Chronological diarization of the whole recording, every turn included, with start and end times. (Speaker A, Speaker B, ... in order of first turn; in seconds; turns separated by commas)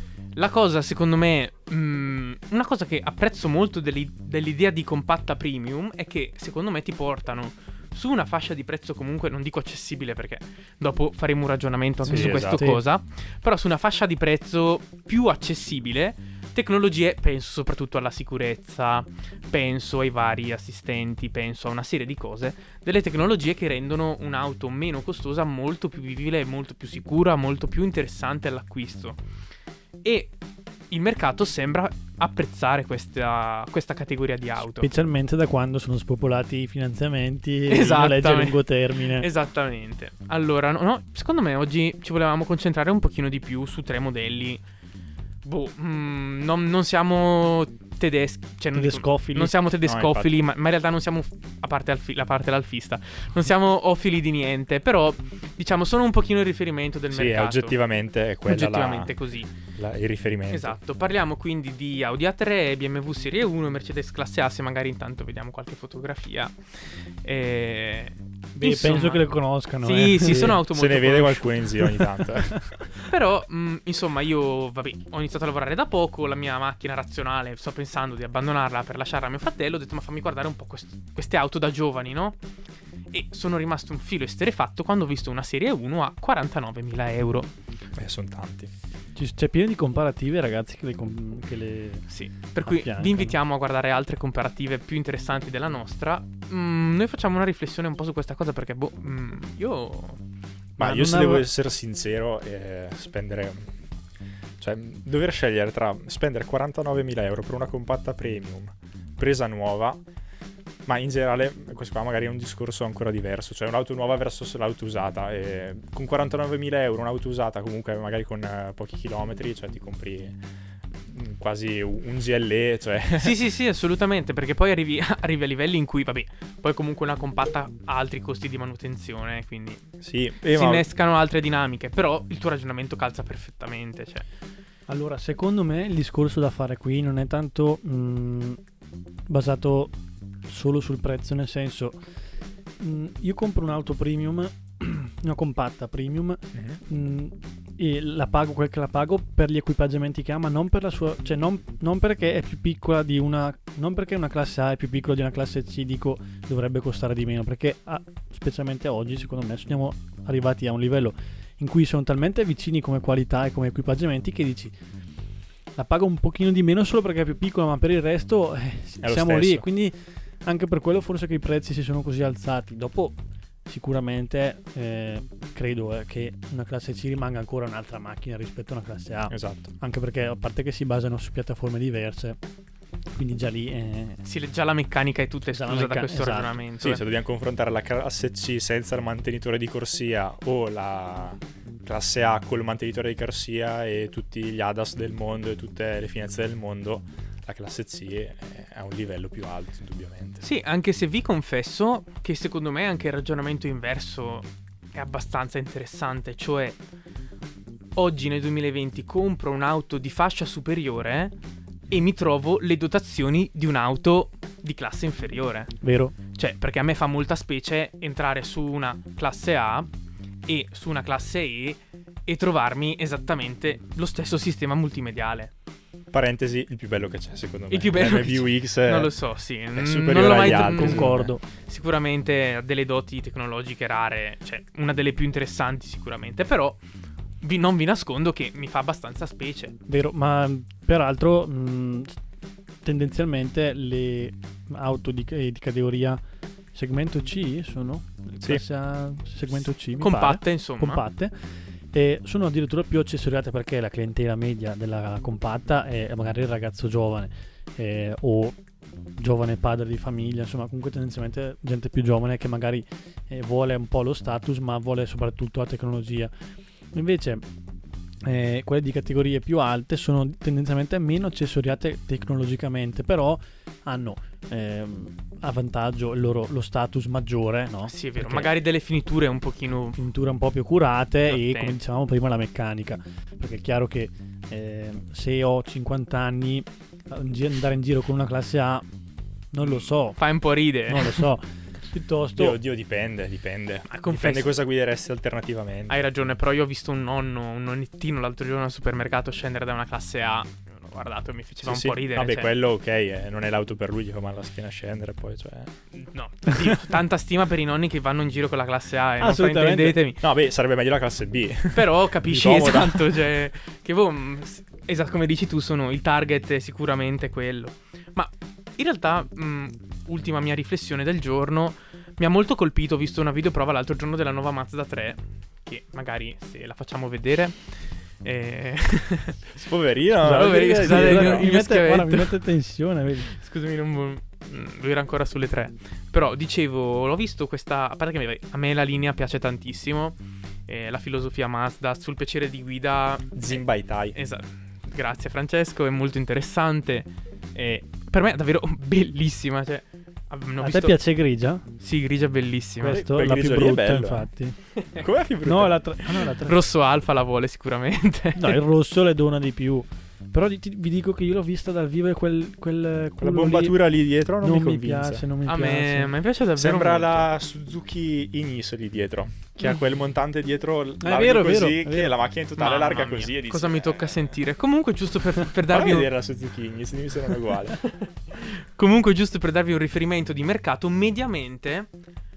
Speaker A: 0.3-29.2, Speaker B: 12.0-12.7, Speaker C: 12.1-12.8, Speaker A: 30.0-30.3, Speaker A: 30.9-34.9, Speaker C: 34.6-39.3, Speaker A: 37.7-44.6, Speaker A: 45.4-57.8, Speaker C: 48.7-49.5, Speaker B: 49.8-50.3, Speaker B: 57.1-59.1, Speaker A: 58.5-59.5, Speaker B: 59.8-60.8, Speaker A: 60.5-66.5, Speaker A: 67.2-69.3, Speaker C: 68.5-70.6, Speaker A: 69.8-71.5, Speaker B: 70.7-72.7, Speaker A: 73.1-82.4, Speaker A: 83.1-87.5, Speaker B: 88.0-88.7, Speaker C: 89.2-92.1, Speaker A: 92.1-100.2, Speaker C: 92.7-93.3, Speaker B: 100.8-103.7, Speaker C: 100.8-101.5, Speaker B: 104.6-110.0, Speaker B: 110.8-120.4, Speaker B: 121.1-123.4, Speaker A: 123.2-129.8, Speaker B: 130.0-130.9, Speaker A: 130.5-134.2, Speaker C: 134.9-138.6, Speaker C: 139.3-139.9, Speaker C: 140.5-142.0, Speaker C: 142.8-164.7, Speaker B: 146.5-146.8, Speaker C: 165.8-182.4, Speaker B: 169.0-169.7, Speaker B: 179.3-179.7, Speaker C: 183.1-184.2, Speaker A: 184.2-187.0, Speaker C: 185.5-186.5, Speaker B: 186.8-200.4, Speaker A: 200.4-206.8, Speaker A: 207.9-211.3, Speaker A: 211.9-215.7, Speaker C: 215.8-216.2, Speaker A: 216.3-219.9, Speaker A: 220.4-225.5, Speaker B: 226.1-229.1, Speaker A: 227.7-236.8, Speaker B: 229.7-231.3, Speaker C: 230.1-231.4, Speaker A: 237.4-239.8, Speaker C: 239.9-242.2, Speaker C: 242.8-246.2, Speaker C: 246.7-251.3, Speaker A: 250.0-251.0, Speaker C: 251.9-258.6, Speaker C: 259.2-266.3, Speaker C: 266.9-267.4, Speaker C: 268.2-278.5, Speaker A: 277.9-280.0, Speaker C: 280.0-288.8, Speaker A: 281.3-281.8, Speaker C: 289.5-290.2, Speaker A: 289.6-291.2, Speaker C: 290.9-292.6, Speaker B: 292.4-296.0, Speaker A: 293.9-294.6, Speaker A: 295.9-302.5, Speaker B: 301.6-305.7, Speaker A: 305.9-310.2, Speaker C: 309.2-310.0, Speaker B: 310.2-313.2, Speaker A: 311.7-327.6, Speaker A: 328.2-329.4, Speaker B: 329.6-331.5, Speaker A: 330.2-332.4, Speaker C: 330.2-333.3, Speaker A: 333.3-340.1, Speaker A: 340.7-351.0, Speaker B: 343.3-344.2, Speaker C: 350.6-351.6, Speaker A: 351.8-353.0, Speaker C: 352.8-354.6, Speaker B: 352.9-354.3, Speaker B: 354.9-355.9, Speaker C: 355.4-356.6, Speaker A: 356.2-358.6, Speaker C: 358.4-363.8, Speaker B: 363.2-365.2, Speaker C: 364.4-366.1, Speaker A: 365.4-367.3, Speaker B: 366.6-374.4, Speaker C: 371.0-372.1, Speaker A: 372.6-376.1, Speaker B: 375.7-377.8, Speaker A: 377.8-381.9